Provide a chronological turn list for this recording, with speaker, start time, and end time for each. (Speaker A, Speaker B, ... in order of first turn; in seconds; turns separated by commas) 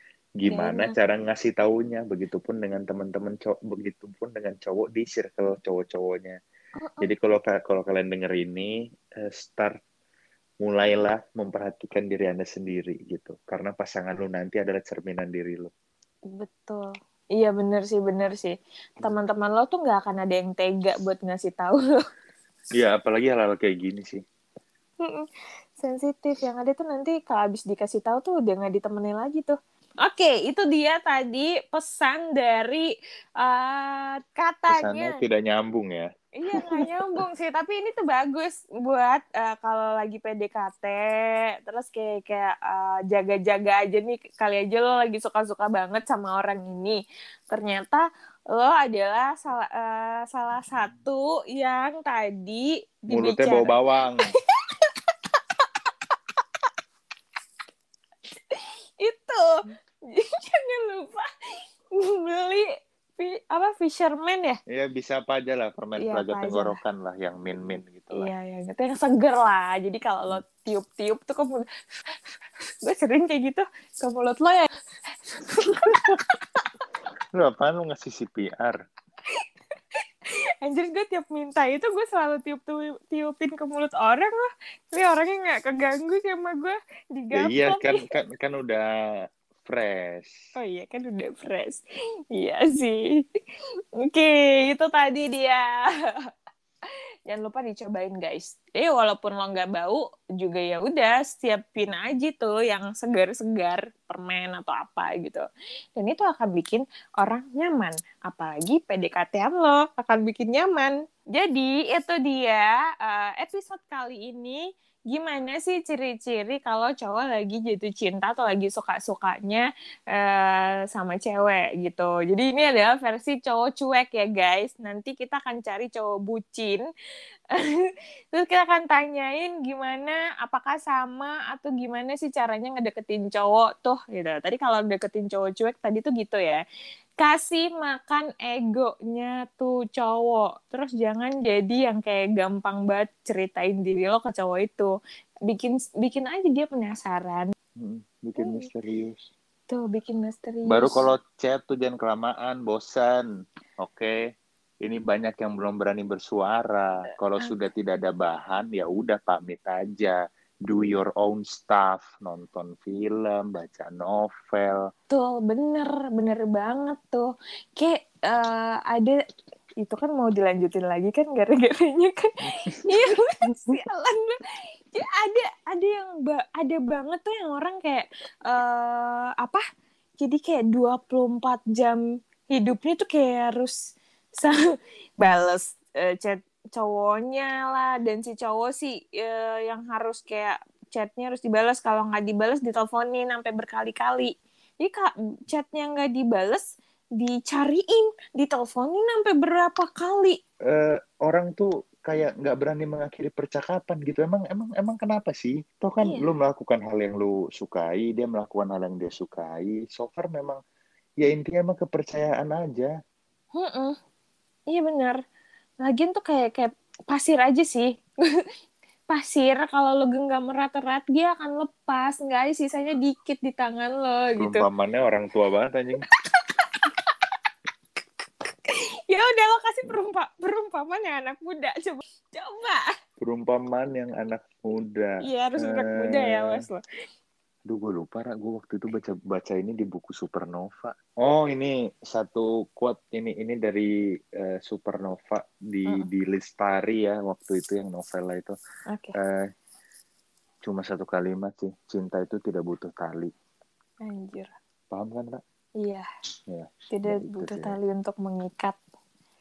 Speaker A: 0.4-6.4, Speaker B: 0.5-0.9, Speaker B: 6.8-7.1, Speaker A: 7.0-9.8, Speaker A: 10.6-15.7, Speaker B: 16.3-22.0, Speaker A: 22.8-24.2, Speaker B: 25.0-35.2, Speaker A: 34.7-37.2, Speaker B: 36.4-53.7, Speaker A: 53.1-54.3, Speaker B: 54.7-56.6, Speaker B: 58.5-61.3, Speaker B: 61.9-64.6, Speaker A: 64.7-68.3, Speaker B: 66.0-66.8, Speaker B: 68.1-72.2, Speaker B: 72.8-74.7, Speaker B: 75.3-76.7, Speaker A: 75.8-76.1, Speaker A: 77.3-78.8, Speaker B: 80.2-88.0, Speaker A: 87.3-88.9, Speaker A: 89.6-90.3, Speaker B: 90.5-91.8, Speaker B: 92.3-93.4, Speaker B: 94.0-96.1, Speaker B: 96.9-105.4, Speaker B: 106.0-126.8, Speaker B: 127.5-136.6, Speaker B: 137.2-144.9, Speaker B: 145.4-147.5, Speaker A: 147.8-149.3, Speaker B: 148.4-148.7, Speaker B: 149.7-151.0, Speaker A: 150.7-153.3, Speaker A: 153.8-154.2, Speaker A: 154.8-164.9, Speaker B: 165.1-169.2, Speaker B: 169.8-174.4, Speaker A: 172.5-173.7, Speaker B: 174.9-179.6, Speaker B: 180.2-183.8, Speaker B: 184.3-196.6, Speaker B: 197.2-200.4, Speaker A: 200.7-210.6, Speaker A: 211.2-212.9, Speaker B: 213.5-214.0, Speaker B: 214.7-215.2, Speaker B: 215.8-218.4, Speaker B: 219.1-224.6, Speaker A: 224.4-226.1, Speaker B: 226.3-227.3, Speaker B: 228.4-232.9, Speaker A: 233.2-236.6, Speaker B: 235.2-236.8, Speaker A: 237.7-248.6, Speaker B: 248.9-249.1, Speaker A: 249.1-249.5, Speaker A: 250.6-253.3, Speaker B: 254.0-254.5, Speaker A: 254.9-255.4, Speaker B: 255.8-256.1, Speaker A: 256.5-257.8, Speaker B: 256.9-258.8